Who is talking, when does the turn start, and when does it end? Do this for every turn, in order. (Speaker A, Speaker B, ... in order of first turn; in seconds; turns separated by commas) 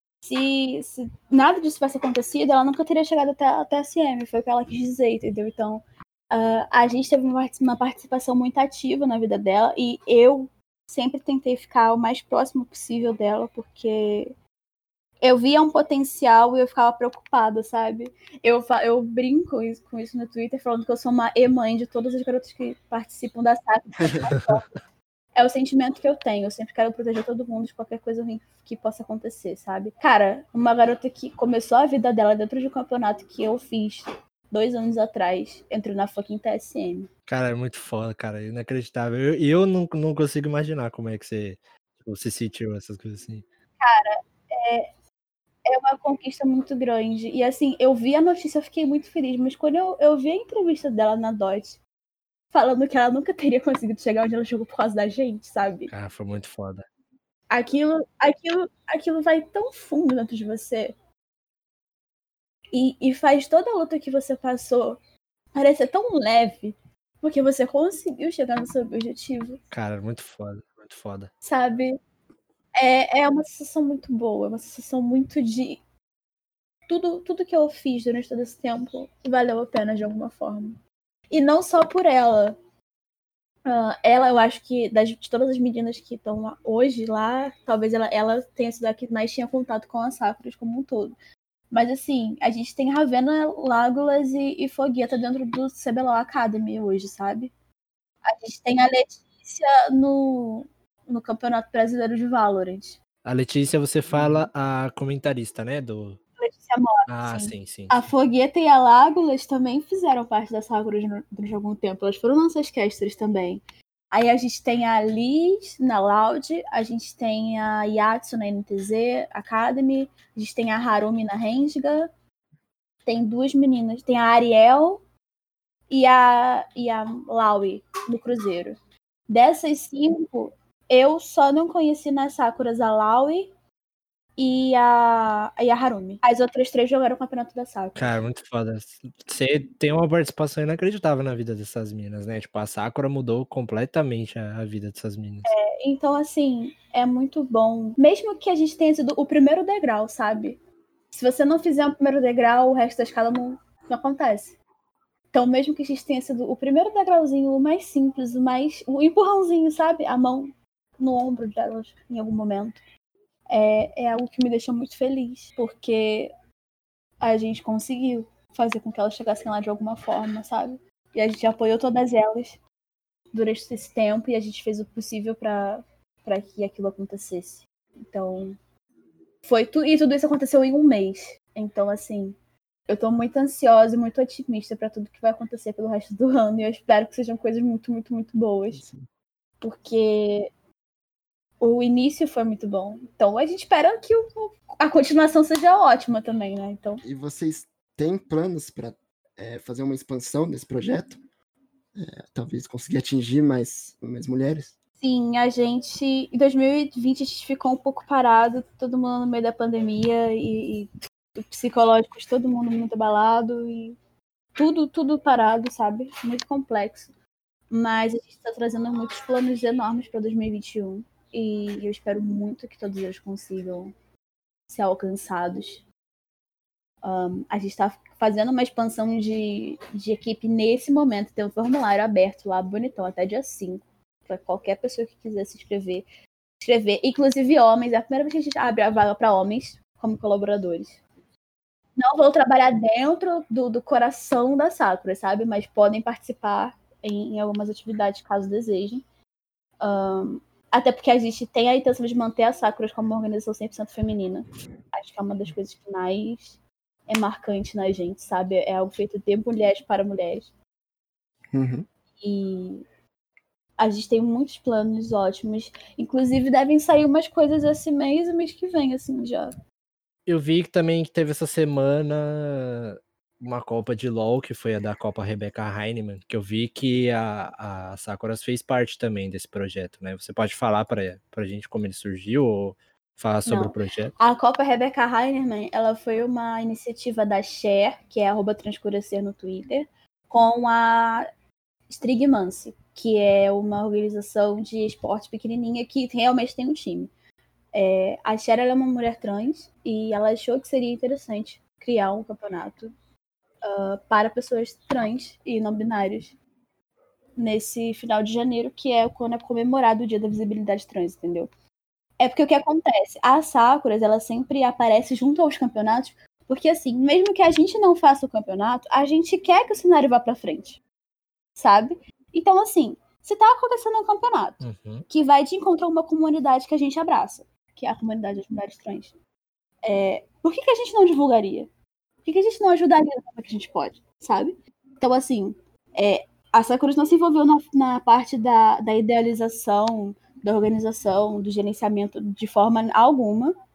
Speaker A: 0.2-14.3, Speaker A: 15.2-24.6, Speaker B: 24.3-24.6, Speaker A: 25.4-37.1, Speaker B: 37.3-43.5, Speaker A: 43.8-44.9, Speaker A: 45.6-51.8, Speaker A: 52.5-55.9, Speaker B: 55.9-56.9, Speaker A: 57.5-60.9, Speaker A: 62.7-65.0, Speaker A: 65.5-69.6, Speaker B: 69.7-71.3, Speaker A: 71.4-72.0, Speaker A: 72.8-75.8, Speaker A: 76.9-80.8, Speaker A: 81.3-82.5, Speaker A: 83.7-91.2, Speaker A: 91.7-97.5, Speaker A: 98.2-103.0, Speaker B: 103.2-106.2, Speaker C: 104.1-104.5, Speaker A: 106.4-122.1, Speaker B: 107.1-108.0, Speaker A: 123.0-125.0, Speaker A: 125.9-128.8, Speaker A: 129.3-133.5, Speaker A: 134.4-138.2, Speaker B: 137.9-145.5, Speaker A: 145.5-150.6, Speaker A: 151.1-154.6, Speaker A: 155.3-162.8, Speaker A: 163.5-166.3, Speaker A: 167.2-172.6, Speaker A: 173.3-178.5, Speaker A: 179.4-182.3, Speaker A: 182.9-188.8, Speaker C: 188.7-189.1, Speaker A: 189.6-190.5, Speaker A: 191.6-197.0, Speaker C: 197.0-201.2, Speaker C: 201.9-204.8, Speaker A: 205.0-213.9, Speaker A: 214.6-217.1, Speaker A: 217.7-223.9, Speaker A: 224.7-225.8, Speaker A: 227.0-236.1, Speaker A: 236.6-241.0, Speaker A: 241.9-249.0, Speaker A: 249.8-260.5, Speaker C: 261.5-261.9, Speaker A: 262.2-262.8, Speaker A: 263.8-269.5, Speaker B: 270.3-284.1, Speaker A: 283.4-291.3, Speaker A: 291.9-297.1, Speaker A: 297.7-302.9, Speaker A: 303.6-306.4, Speaker A: 307.4-311.5, Speaker A: 312.2-320.8, Speaker A: 321.6-329.1, Speaker B: 324.6-325.1, Speaker A: 329.8-331.7, Speaker A: 332.2-343.5